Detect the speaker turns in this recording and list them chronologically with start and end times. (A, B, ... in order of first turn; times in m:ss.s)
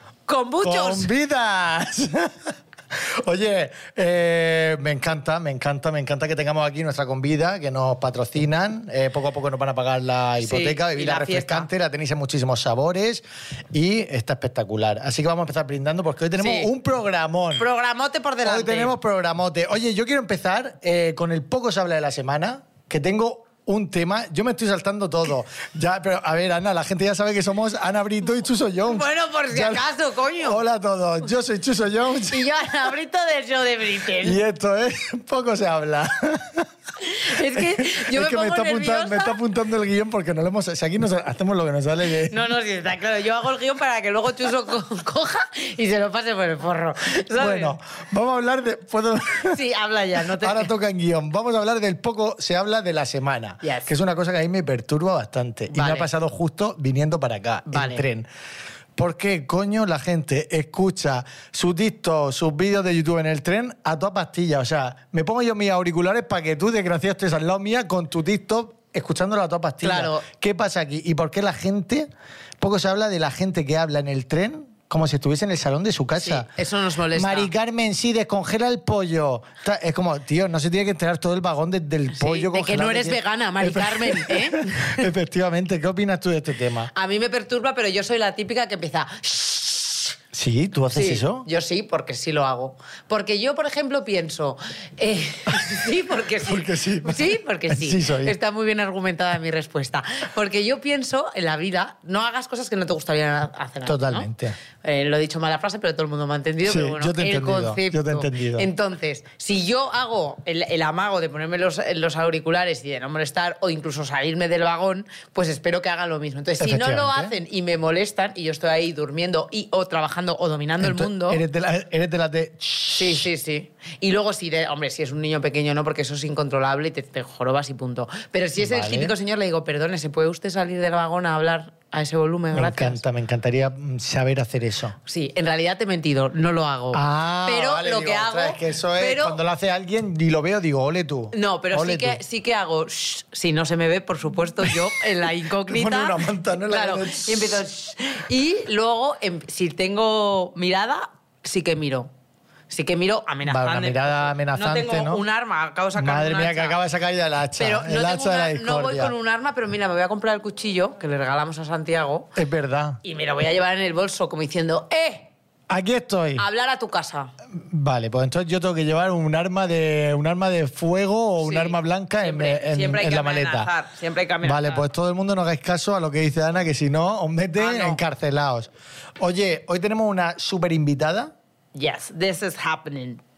0:00.3-0:01.1 A
0:00.6-0:17.7 B
0:10.4-0:11.7 A
0:16.4-0:16.7 A
0:17.6-0:18.9 A
0:18.4-0:32.5 B
0:28.9-0:30.6 A
0:32.3-0:34.4 A
0:34.2-0:36.7 B
0:37.0-0:39.4 A
0:37.3-0:42.4 B
0:42.3-0:47.7 A
0:47.3-0:49.6 B
0:49.4-0:50.7 A
0:50.4-0:58.3 B
0:53.6-0:53.9 A
0:55.7-0:56.1 A
0:57.7-0:58.0 A
0:59.0-1:12.1 B
1:09.8-1:10.3 A
1:12.6-1:16.5 B
1:16.2-1:17.5 A
1:17.1-1:26.9 B
1:22.2-1:25.1 A
1:26.9-1:30.1 A
1:30.3-1:31.5 B
1:30.9-1:44.3 A
1:36.4-1:38.4 B
1:43.8-1:44.6 B
1:44.8-2:01.4 A
1:46.6-1:48.7 B
1:56.6-1:57.4 B
2:00.8-2:03.3 B
2:03.0-2:13.0 A
2:08.6-2:09.1 B
2:12.5-2:15.0 B
2:15.0-2:19.4 A
2:16.9-2:22.2 B
2:21.3-2:32.1 A
2:25.7-2:27.6 B
2:32.7-2:36.8 A
2:33.4-2:35.2 B
2:36.0-2:39.1 B
2:37.6-2:42.3 A
2:42.4-2:43.0 B
2:43.0-2:45.3 A
2:45.7-2:46.4 B
2:46.4-2:47.3 A
2:47.5-2:53.7 B
2:51.4-2:54.9 A
2:54.4-3:01.3 B
2:57.6-2:58.0 A
3:01.7-3:03.2 A